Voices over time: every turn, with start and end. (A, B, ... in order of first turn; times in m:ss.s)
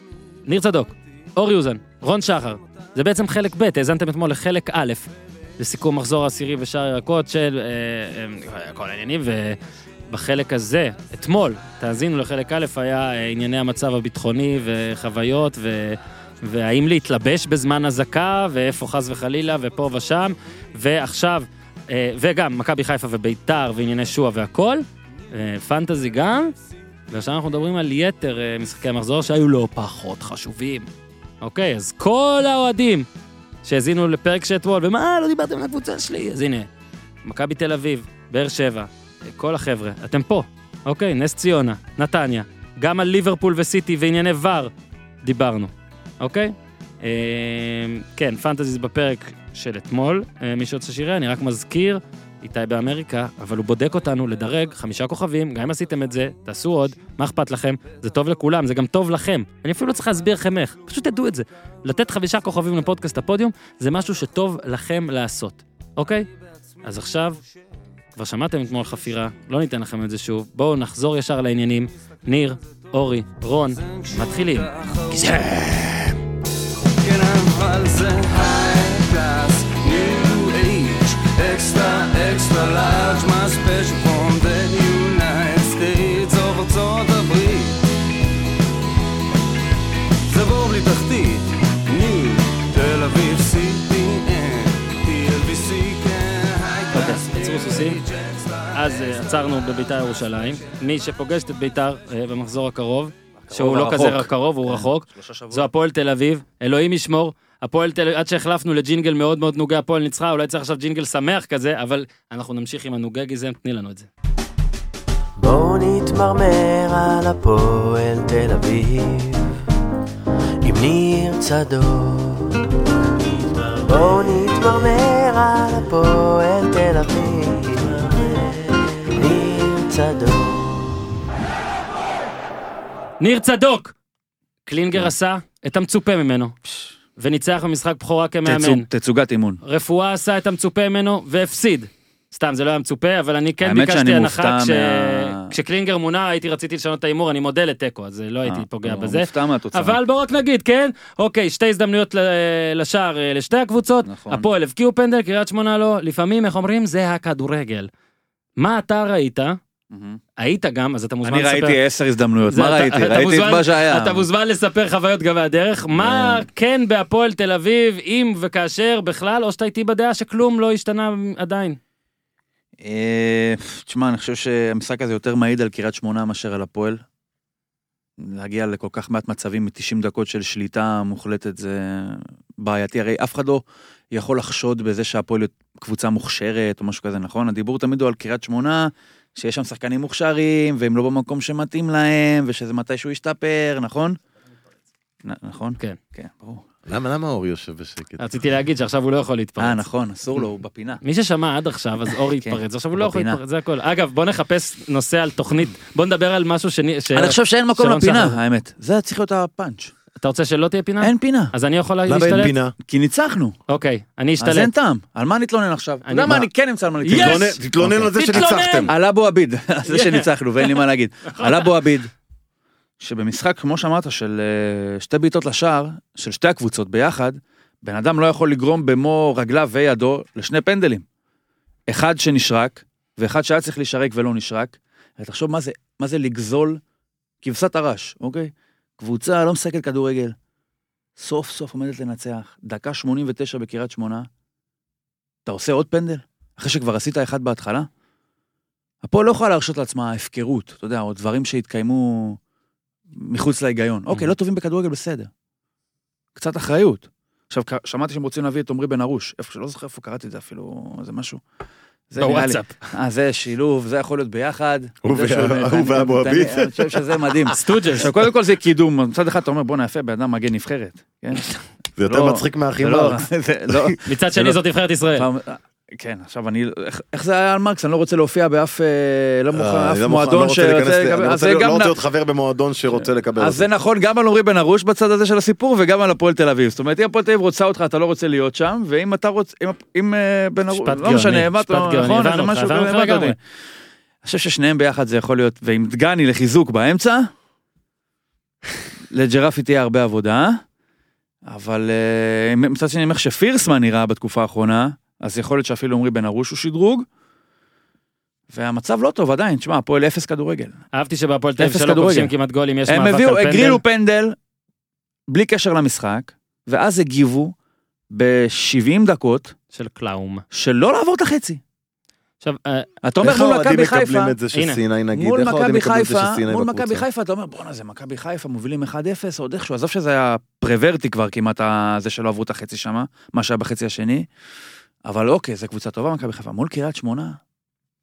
0:00.4-0:09.6 A
0:10.1-0:26.5 A
0:27.1-0:30.9 A
0:31.4-0:33.1 A
0:33.6-0:36.7 A
0:37.2-0:44.7 A
0:45.2-1:06.3 A
1:06.8-1:07.4 A
1:08.2-1:16.1 A
1:13.8-1:15.5 B
1:17.0-1:27.8 B
1:30.3-1:40.8 B
1:36.9-1:38.0 A
1:38.7-1:54.1 A
1:43.5-1:45.6 C
1:55.4-1:59.5 D
2:00.6-2:11.1 D
2:13.2-2:13.9 A
2:14.6-2:16.5 A
2:17.2-2:18.8 A
2:18.4-2:19.6 C
2:19.6-2:37.9 A
2:23.6-2:25.5 C
2:28.4-2:30.0 C
2:34.0-2:34.5 C
2:38.6-2:39.6 A
2:39.9-2:40.2 C
2:40.4-2:41.8 A
2:41.2-2:44.2 C
2:42.5-2:51.8 A
2:52.8-2:57.0 C
2:58.2-3:14.2 C
3:15.2-3:16.6 C
3:16.9-3:18.2 E
3:18.2-3:19.8 A
3:19.6-3:21.0 C
3:21.0-3:28.4 A
3:22.1-3:23.4 C
3:27.1-3:29.9 C
3:30.2-3:32.5 A
3:31.0-3:31.5 C
3:32.1-3:32.7 E
3:32.8-3:33.6 C
3:33.7-3:34.7 A
3:34.4-3:38.1 C
3:36.0-3:36.4 A
3:37.0-3:37.6 A
3:37.1-3:38.9 E
3:38.1-3:38.9 A
3:38.9-3:42.1 C
3:39.9-3:41.7 A
3:43.0-3:51.0 C
3:51.9-3:56.8 C
3:57.4-4:00.3 C
4:01.2-4:04.3 C
4:05.4-4:07.9 C
4:09.0-4:12.4 C
4:13.2-4:15.3 C
4:16.4-4:21.4 C
4:22.1-4:31.5 C
4:22.2-4:22.9 A
4:25.0-4:27.5 E
4:27.5-4:28.1 A
4:32.0-4:33.9 E
4:32.0-4:34.6 C
4:34.1-4:35.3 A
4:35.2-4:41.9 C
4:39.5-4:43.7 E
4:43.0-4:53.4 C
4:50.7-4:53.4 A
4:54.2-4:57.3 C
4:59.1-5:00.6 C
5:01.5-5:07.0 C
5:08.5-5:10.8 C
5:10.9-5:13.8 A
5:11.6-5:12.3 C
5:12.9-5:14.4 C
5:15.3-5:17.5 C
5:18.1-5:19.5 C
5:19.7-5:20.4 A
5:20.5-5:21.6 C
5:22.4-5:22.9 A
5:23.0-5:24.3 C
5:23.2-5:27.0 E
5:24.5-5:24.8 A
5:25.1-5:34.2 C
5:35.0-5:37.4 C